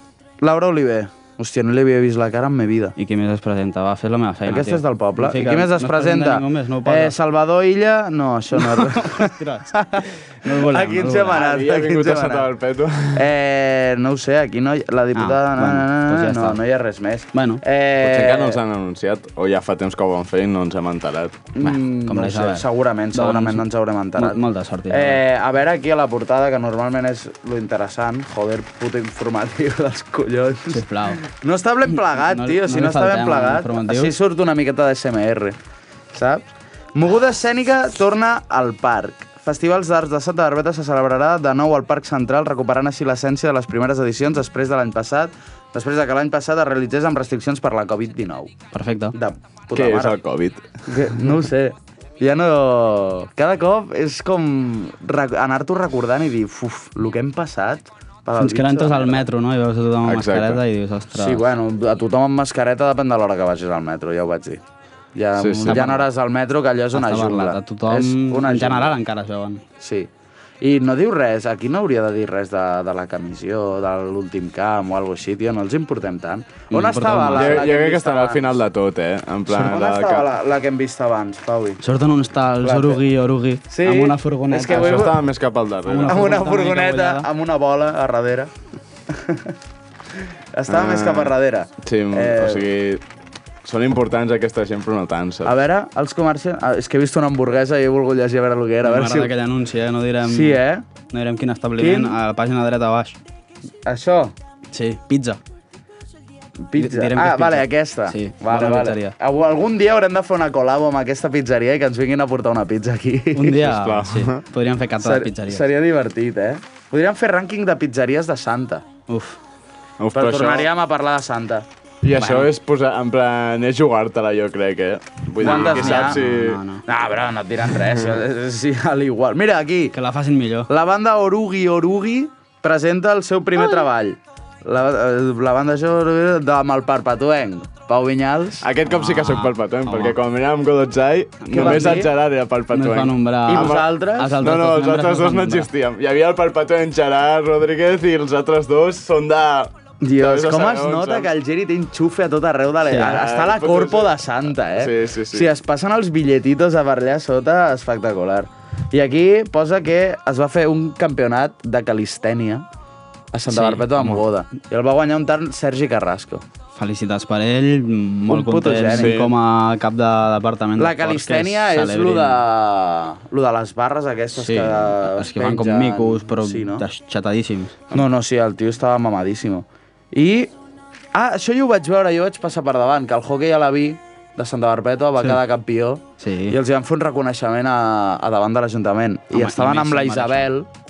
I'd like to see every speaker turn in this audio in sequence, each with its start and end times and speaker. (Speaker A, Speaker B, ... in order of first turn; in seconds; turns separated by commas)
Speaker A: 0.4-2.9, Speaker B: 3.0-7.1, Speaker A: 4.4-12.5, Speaker B: 8.6-9.7, Speaker B: 10.4-11.4, Speaker C: 11.3-13.3, Speaker A: 13.1-18.6, Speaker B: 15.1-16.6, Speaker B: 17.3-17.6, Speaker C: 18.0-21.4, Speaker A: 21.5-35.6, Speaker B: 21.6-23.6, Speaker B: 24.2-25.2, Speaker B: 30.7-31.2, Speaker B: 32.1-34.1, Speaker A: 36.1-48.5, Speaker B: 48.7-49.1, Speaker A: 49.1-50.1, Speaker C: 49.7-50.7, Speaker A: 50.9-59.2, Speaker B: 58.4-61.4, Speaker C: 60.0-60.6, Speaker A: 61.1-64.6, Speaker A: 65.1-69.0, Speaker C: 65.3-66.0, Speaker B: 65.7-66.0, Speaker B: 66.9-69.6, Speaker A: 69.8-70.1, Speaker A: 70.6-78.5, Speaker B: 76.7-77.7, Speaker C: 77.3-80.3, Speaker A: 79.5-81.8, Speaker B: 81.8-85.2, Speaker A: 82.6-83.0, Speaker A: 83.7-85.2, Speaker C: 84.7-86.4, Speaker B: 85.9-87.3, Speaker A: 86.0-88.5, Speaker A: 89.1-89.5, Speaker A: 90.5-92.7, Speaker C: 90.7-93.0, Speaker C: 93.6-95.5, Speaker A: 95.4-99.3, Speaker B: 98.8-100.6, Speaker A: 100.2-100.8, Speaker B: 101.1-103.2, Speaker A: 101.8-102.2, Speaker A: 103.8-104.3, Speaker B: 104.7-105.4, Speaker A: 106.7-113.6, Speaker B: 106.8-109.2, Speaker B: 113.3-115.6, Speaker C: 113.6-114.4, Speaker A: 115.0-118.8, Speaker B: 119.1-119.4, Speaker C: 120.0-120.7, Speaker A: 120.1-121.6, Speaker C: 122.0-126.6, Speaker B: 122.1-122.5, Speaker A: 125.4-126.2, Speaker B: 125.4-126.8, Speaker A: 126.8-129.9, Speaker B: 129.9-130.7, Speaker A: 130.7-138.7, Speaker C: 138.6-151.3, Speaker B: 138.8-140.2, Speaker B: 141.4-142.0, Speaker A: 141.5-142.1, Speaker B: 142.7-145.7, Speaker A: 143.5-144.4, Speaker A: 150.0-162.7, Speaker B: 152.8-153.2, Speaker C: 153.0-155.5, Speaker A: 163.3-166.4, Speaker B: 163.5-164.2, Speaker B: 166.8-172.4, Speaker A: 168.3-169.1, Speaker C: 168.9-169.3, Speaker A: 170.8-176.8, Speaker B: 174.3-178.0, Speaker A: 177.9-180.5, Speaker A: 181.1-190.7, Speaker B: 186.2-186.6, Speaker B: 189.3-190.5